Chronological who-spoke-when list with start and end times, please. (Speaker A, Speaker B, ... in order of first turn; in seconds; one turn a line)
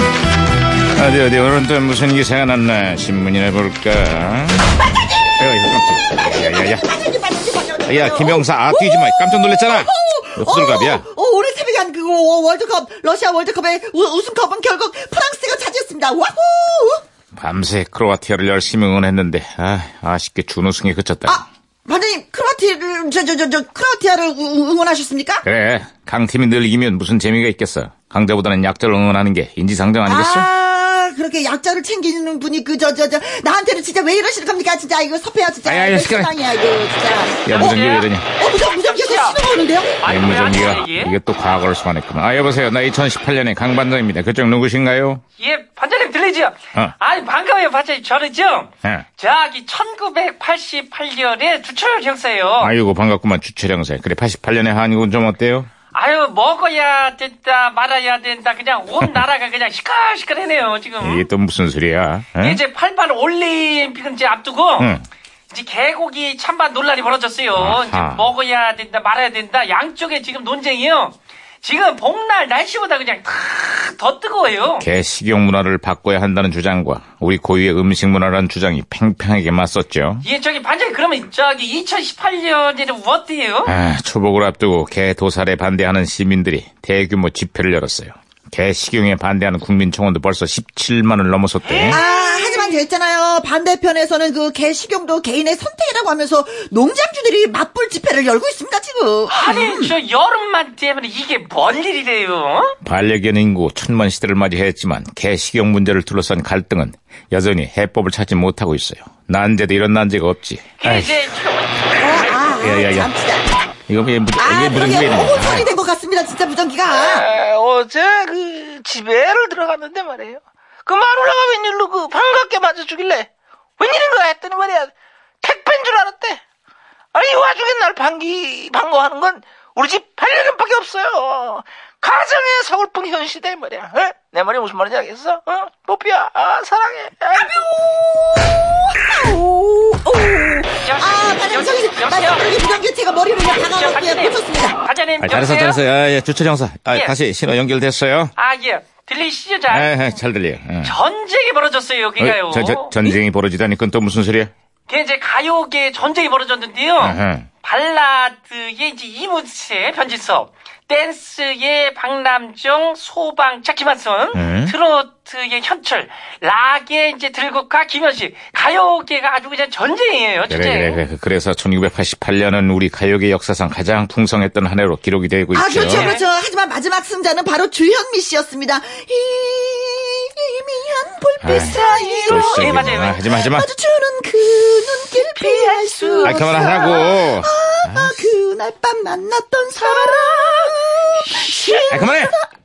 Speaker A: 0.9-4.8
Speaker A: 5.4-6.8
Speaker B: 6.1-17.0
Speaker A: 7.9-11.1
Speaker A: 17.4-21.4
Speaker B: 21.3-25.4
Speaker A: 25.4-30.5
Speaker B: 30.1-40.0
Speaker A: 35.6-36.4
Speaker A: 37.5-38.3
Speaker C: 37.5-39.4
Speaker C: 40.0-41.1
Speaker A: 40.0-45.2
Speaker C: 45.4-52.7
Speaker A: 52.6-55.7
Speaker C: 55.9-61.2
Speaker A: 61.0-62.6
Speaker C: 62.4-64.9
Speaker A: 64.8-65.1
Speaker C: 65.5-74.9
Speaker A: 67.5-68.3
Speaker A: 74.8-80.2
Speaker C: 80.2-83.7
Speaker A: 83.7-92.0
Speaker C: 91.7-92.8
Speaker B: 91.9-99.9
Speaker C: 99.3-102.8
Speaker A: 102.8-111.3
Speaker C: 110.8-112.6
Speaker B: 112.0-113.5
Speaker A: 112.6-113.1
Speaker A: 113.9-115.7
Speaker B: 114.4-117.2
Speaker D: 116.9-126.4
Speaker D: 127.1-137.6
Speaker B: 137.4-144.8
Speaker C: 140.8-142.6
Speaker C: 143.5-145.8
Speaker A: 145.2-148.3
Speaker C: 148.4-149.9
Speaker A: 149.7-150.9
Speaker C: 150.8-153.0
Speaker A: 152.2-154.5
Speaker C: 154.9-171.0
Speaker A: 157.0-157.5
Speaker A: 164.3-164.8
Speaker A: 170.5-176.1
Speaker B: 175.5-192.5
Speaker C: 175.7-176.2
Speaker A: 181.4-183.7
Speaker C: 181.6-183.2
Speaker C: 185.2-187.1
Speaker A: 186.2-188.2
Speaker C: 189.8-192.0
Speaker A: 191.9-192.3